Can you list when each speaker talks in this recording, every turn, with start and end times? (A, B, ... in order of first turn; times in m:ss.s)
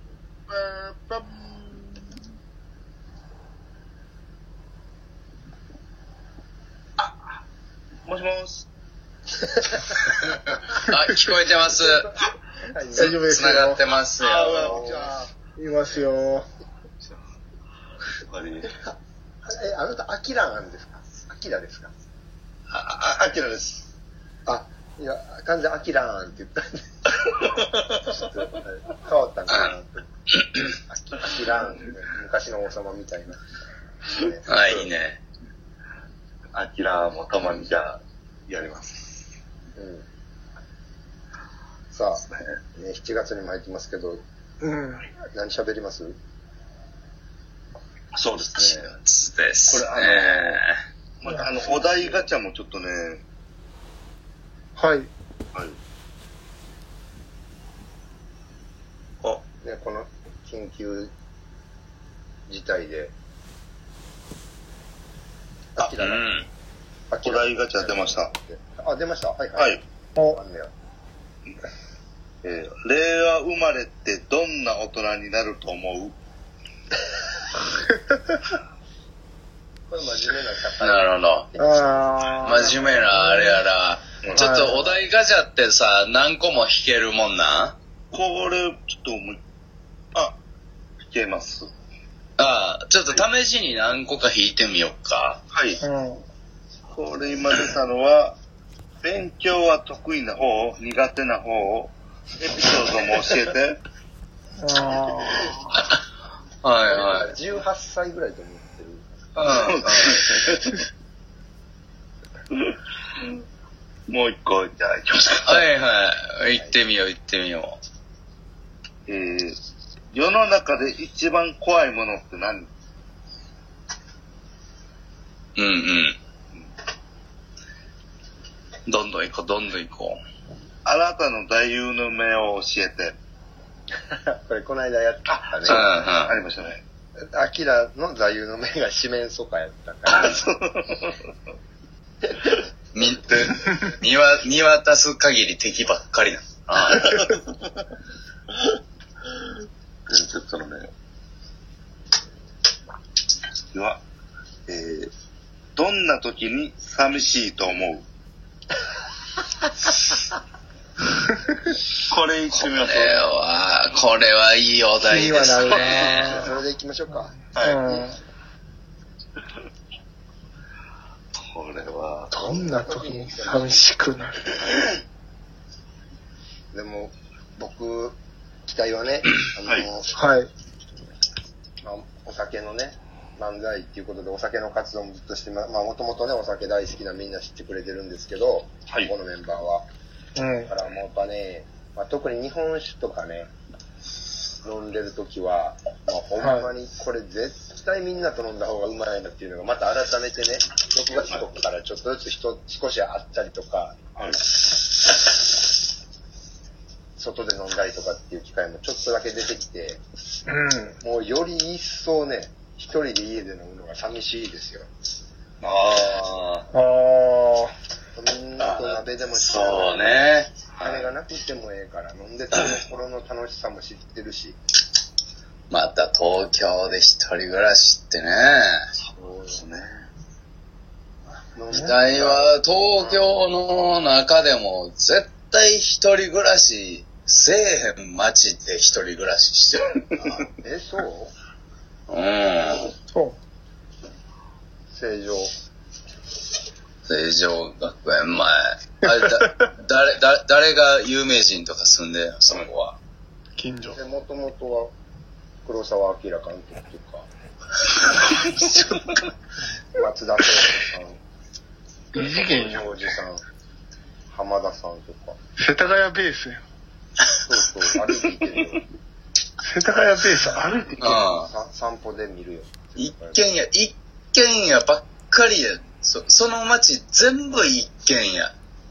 0:00.8-0:01.4 A
0:08.1-0:08.7 A
0:09.4-0:09.9 B
0:10.3-0:12.1 C
0:10.8-0:11.1 D
0:12.6-0:13.3 B
0:12.9-0:13.8 D
0:13.0-0:14.8 C
0:14.2-0:15.3 A
0:14.6-0:15.2 B
0:15.5-0:16.5 D
0:18.3-0:18.7 A
0:18.8-0:21.9 B
0:22.7-0:23.9 A
0:24.5-0:26.8 B
0:27.2-0:28.2 A
0:28.1-0:30.1 B
0:29.5-0:29.8 C
0:30.3-0:30.7 C
0:30.8-0:33.4 B
0:34.1-0:34.6 B
0:34.5-0:35.2 C
0:34.6-0:34.9 A
0:36.5-0:39.0 A
0:39.8-0:40.1 B
0:41.9-0:44.2 B
0:42.2-0:42.6 A
0:44.6-0:45.1 D
0:45.3-0:46.2 B
0:48.1-0:49.0 A
0:48.6-0:50.7 C
0:49.7-0:50.6 A
0:51.2-0:53.2 A
0:51.3-0:51.5 D
0:51.6-0:52.2 B
0:54.8-0:55.1 D
0:59.6-1:01.1 B
1:02.5-1:03.1 B
1:05.8-1:06.3 B
1:06.0-1:06.5 C
1:07.1-1:09.8 B
1:07.2-1:08.3 A
1:09.6-1:09.8 A
1:10.3-1:10.7 B
1:12.4-1:16.2 A
1:17.9-1:18.4 D
1:19.9-1:22.7 B
1:20.8-1:21.5 C
1:21.6-1:23.6 D
1:22.4-1:27.8 C
1:24.3-1:24.9 D
1:28.1-1:29.4 A
1:31.0-1:31.7 A
1:32.4-1:35.4 C
1:35.5-1:35.8 A
1:35.8-1:36.2 D
1:36.9-1:38.4 A
1:39.0-1:43.8 A
1:44.6-1:45.6 D
1:45.7-1:46.0 C
1:46.6-1:47.3 C
1:46.9-1:49.5 B
1:49.4-1:50.4 C
1:49.4-1:50.8 A
1:54.1-1:55.7 A
1:55.4-1:57.8 C
1:59.1-1:59.6 A
2:00.1-2:02.7 A
2:05.6-2:06.2 C
2:08.9-2:10.2 C
2:10.8-2:13.2 A
2:14.1-2:15.9 B
2:15.3-2:16.8 A
2:15.7-2:16.4 C
2:17.3-2:20.4 B
2:20.2-2:21.3 A
2:22.2-2:22.5 B
2:22.9-2:27.4 C
2:26.9-2:27.7 A
2:30.1-2:30.9 A
2:33.7-2:34.0 A
2:34.7-2:35.1 A
2:35.8-2:38.1 A
2:42.0-2:43.4 A
2:42.5-2:46.4 C
2:45.0-2:46.5 D
2:46.0-2:48.1 B
2:47.4-2:48.2 D
2:51.4-2:52.4 A
2:52.3-2:54.7 D
2:52.5-2:53.9 B
2:56.7-3:00.2 B
2:59.6-2:59.9 A
3:00.1-3:00.5 D
3:01.8-3:09.8 B
3:10.4-3:10.7 D
3:10.7-3:13.5 B
3:14.6-3:24.0 B
3:16.4-3:16.7 D
3:21.1-3:21.5 A
3:24.1-3:24.6 A
3:27.2-3:30.0 B
3:30.5-3:31.0 D
3:31.0-3:34.9 B
3:35.6-3:36.7 A
3:36.7-3:37.7 D
3:38.2-3:40.1 B
3:38.6-3:39.0 A
3:39.4-3:40.5 C
3:40.8-3:41.1 A
3:40.8-3:44.6 B
3:45.7-3:48.8 C
3:49.1-3:50.1 A
3:49.2-3:49.6 B
3:51.6-3:53.4 B
3:51.8-4:00.1 C
4:00.2-4:01.3 B
4:02.1-4:02.9 C
4:03.0-4:03.4 D
4:04.9-4:05.5 B
4:07.1-4:13.0 C
4:09.2-4:09.5 D
4:13.6-4:14.0 D
4:13.9-4:15.0 B
4:15.6-4:17.3 B
4:20.0-4:21.2 B
4:22.1-4:22.9 D
4:22.3-4:23.4 B
4:24.3-4:25.4 B
4:25.6-4:26.6 D
4:27.5-4:28.8 B
4:29.6-4:31.3 D
4:31.0-4:31.5 C
4:31.1-4:33.4 B
4:33.0-4:38.5 C